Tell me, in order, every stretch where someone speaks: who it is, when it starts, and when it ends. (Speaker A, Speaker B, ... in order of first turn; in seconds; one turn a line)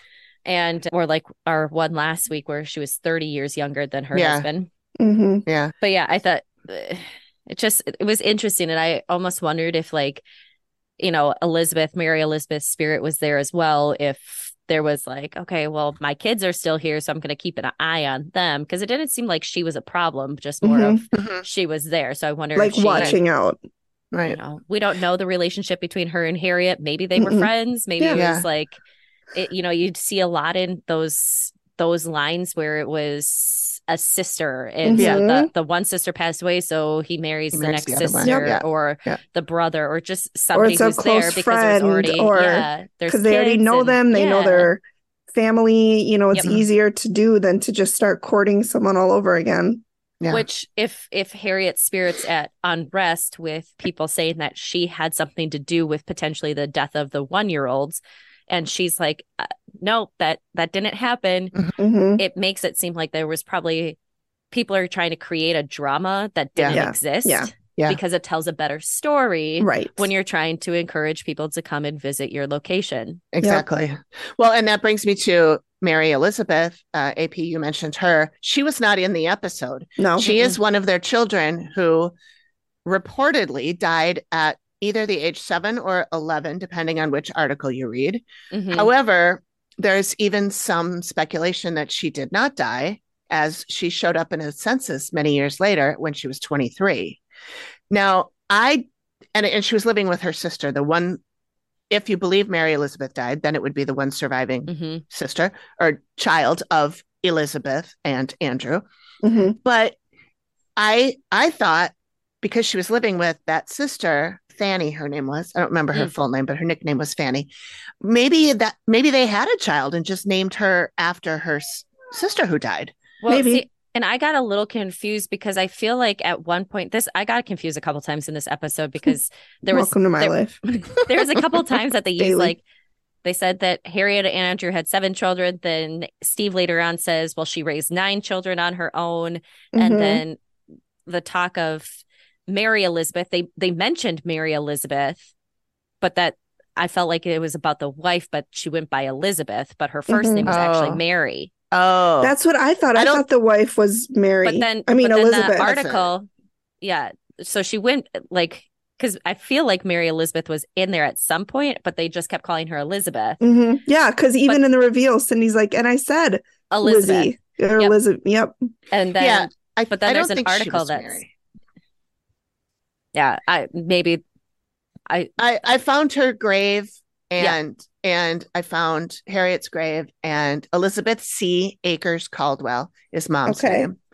Speaker A: 0.5-4.7
Speaker B: 4.1-4.5
Speaker C: 5.0-5.4
Speaker B: 5.5-5.7
Speaker A: 5.8-10.2
Speaker A: 11.0-23.2
Speaker C: 20.6-21.0
Speaker B: 21.1-21.4
Speaker C: 22.6-23.6
Speaker B: 24.1-24.4
Speaker A: 24.2-28.8
Speaker C: 27.2-28.2
Speaker B: 28.1-28.4
Speaker A: 29.3-44.7
Speaker C: 34.8-35.5
Speaker B: 34.9-35.2
Speaker B: 37.5-39.2
Speaker C: 38.2-38.5
Speaker C: 40.5-44.8
Speaker C: 45.3-49.8
Speaker B: 46.4-46.6
Speaker B: 50.2-50.5
Speaker A: 50.3-61.5
Speaker C: 61.8-62.2
Speaker A: 62.2-64.0
Speaker A: 64.5-73.2
Speaker C: 66.7-67.5
Speaker C: 69.6-70.1
Speaker B: 73.3-82.1
Speaker C: 80.0-80.3
Speaker B: 82.8-97.2
Speaker A: 88.5-88.9
Speaker B: 97.9-101.2
Speaker B: 101.9-108.8
Speaker A: 104.7-105.0
Speaker C: 109.2-109.5
Speaker B: 109.6-110.0
Speaker B: 110.8-122.9
Speaker A: 123.2-132.6
Speaker C: 123.3-123.6
Speaker C: 129.7-130.6
Speaker C: 132.2-132.5
Speaker A: 133.2-140.4
Speaker C: 139.7-140.2
Speaker A: 141.1-145.3
Speaker A: 146.0-151.5
Speaker C: 150.1-150.5
Speaker B: 150.5-151.0
Speaker B: 151.7-152.3
Speaker C: 152.2-155.7
Speaker B: 152.9-153.2
Speaker A: 154.4-156.3
Speaker B: 155.6-156.1
Speaker A: 156.8-163.4
Speaker C: 163.4-168.6
Speaker A: 166.7-168.0
Speaker A: 168.9-171.2
Speaker B: 169.2-171.3
Speaker A: 173.1-174.2
Speaker B: 175.4-183.9
Speaker C: 183.5-183.9